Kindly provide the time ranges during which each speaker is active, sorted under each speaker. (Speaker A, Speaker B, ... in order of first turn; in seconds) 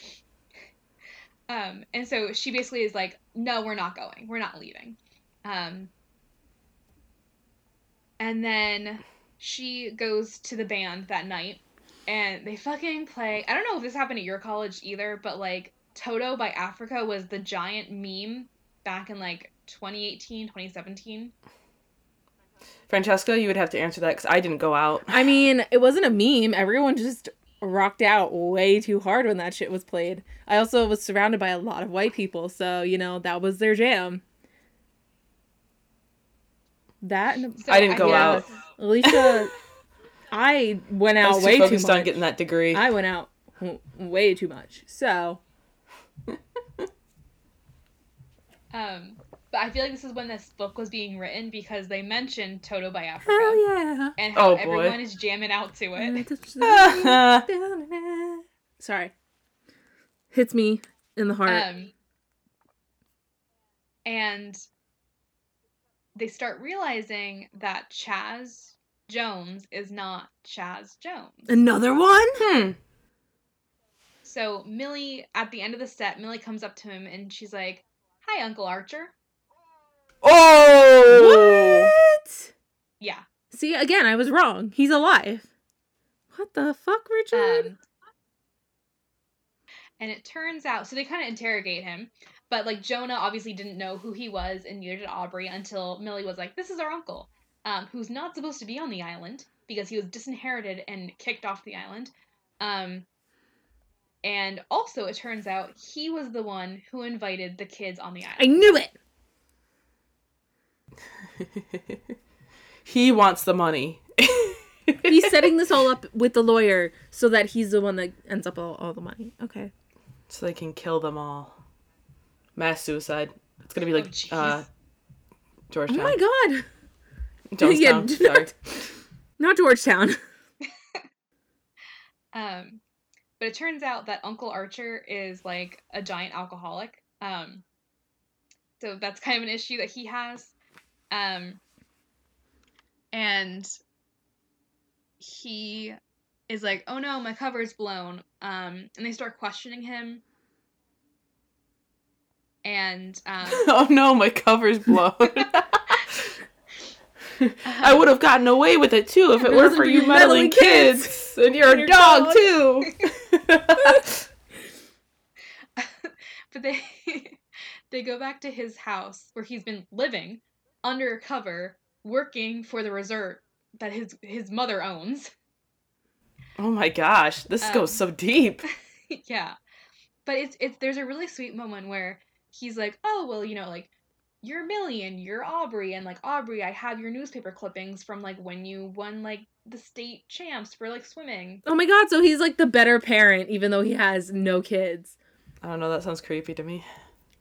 Speaker A: 1.5-5.9, 8.2-21.3, 37.6-38.6, 48.7-53.6, 54.2-56.2, 61.5-61.9, 64.0-64.6, 66.2-71.5, 74.2-79.1, 83.0-83.2, 87.3-87.8, 90.0-103.1, 104.2-108.7, 124.0-124.7, 132.3-132.8, 133.4-137.6, 138.8-140.5, 141.1-141.6, 143.1-143.7, 145.2-146.0, 146.5-150.2, 152.6-153.7, 157.7-158.0, 165.8-167.4, 167.9-175.3, 177.6-178.0, 178.7-179.6, 180.3-183.9, 184.4-191.6
Speaker B: 22.9-25.3, 37.7-38.5, 39.0-39.4, 41.2-42.9, 46.3-46.9, 54.3-55.0, 56.6-57.5, 72.4-72.8, 80.2-81.9, 111.4-112.0, 112.8-115.5, 120.3-121.6, 122.6-124.7, 125.7-126.2, 127.5-128.9, 153.5-156.3, 157.3-164.2, 176.6-178.7, 195.6-196.9
Speaker C: 25.1-34.2, 37.0-39.5, 40.3-42.2, 42.7-45.4, 53.2-54.1, 56.0-59.1, 60.3-61.7, 71.5-72.4, 81.1-82.5, 83.5-85.5, 86.3-87.7, 108.4-108.9, 115.0-119.7, 125.9-126.7, 127.6-128.5, 129.4-130.2, 159.4-162.5, 191.7-195.2